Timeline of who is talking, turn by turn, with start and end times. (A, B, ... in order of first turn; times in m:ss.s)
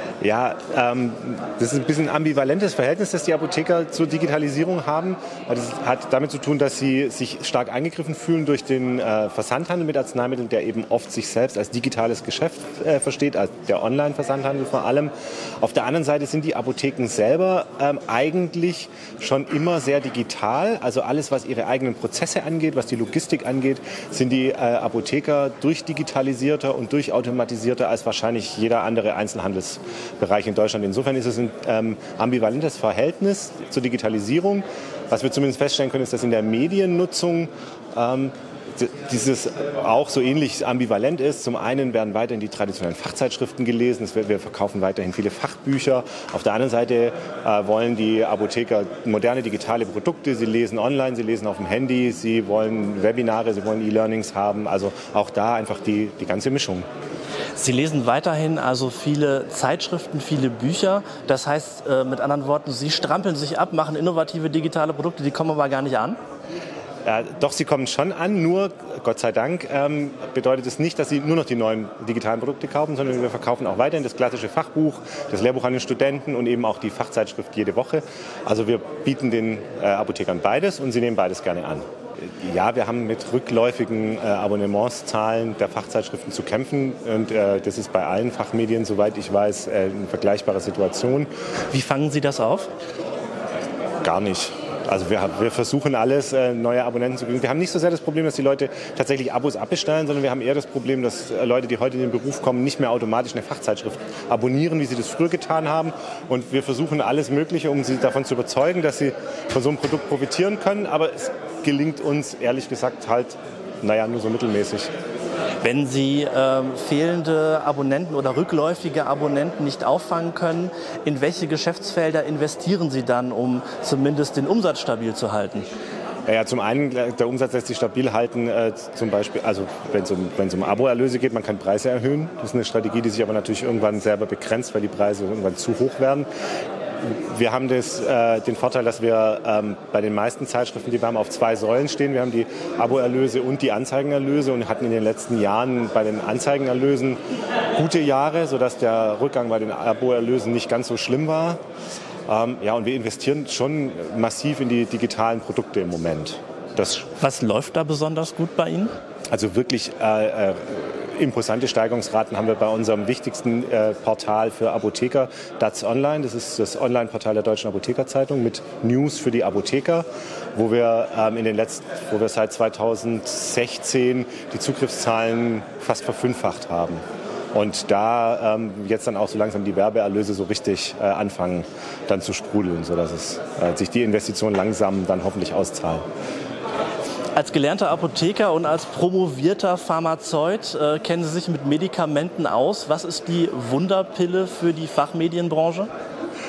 0:00.2-0:56.8 A
0:57.6-1:06.2 B
1:07.0-1:31.3 A
1:31.7-1:32.7 B
1:34.0-1:54.9 A
1:55.6-2:05.7 B
2:06.3-2:16.3 A
2:17.0-2:27.2 A
2:27.7-2:31.6 A
2:32.3-2:37.1 A
2:37.1-2:38.9 B
2:39.3-2:57.0 A
2:57.5-3:06.0 A
3:07.3-3:15.9 B